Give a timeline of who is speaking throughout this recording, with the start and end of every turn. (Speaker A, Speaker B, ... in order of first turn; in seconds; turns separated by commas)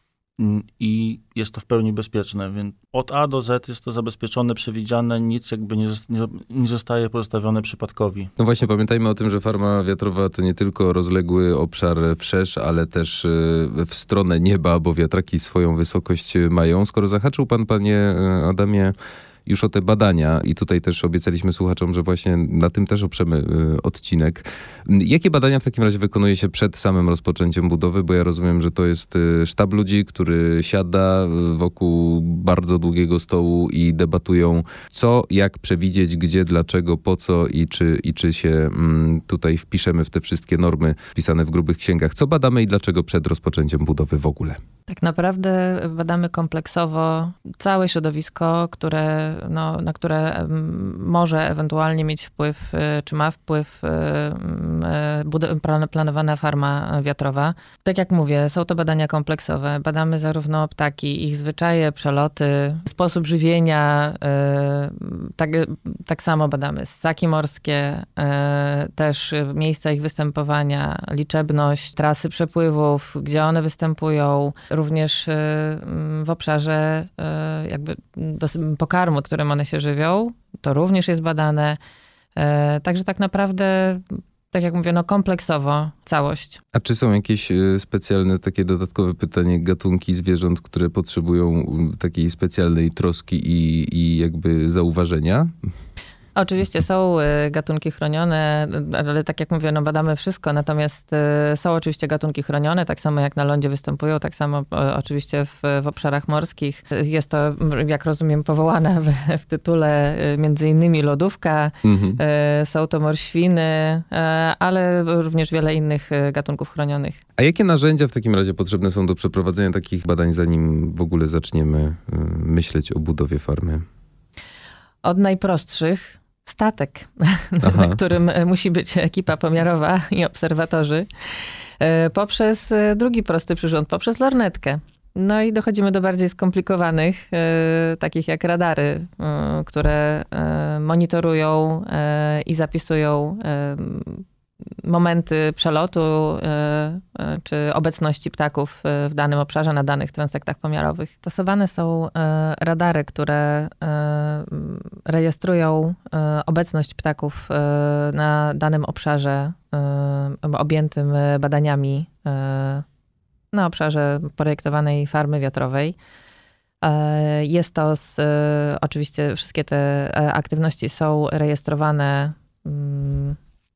Speaker A: 0.4-8.3, Speaker B: 8.4-18.9, Speaker B: 19.4-44.6, Speaker C: 44.9-81.8, Speaker C: 82.3-86.6, Speaker B: 86.7-95.5, Speaker C: 96.3-117.2, Speaker B: 111.8-112.2, Speaker B: 117.4-123.8, Speaker C: 125.0-144.2, Speaker B: 127.6-128.0, Speaker C: 144.8-162.8, Speaker C: 163.5-166.0, Speaker C: 166.8-173.4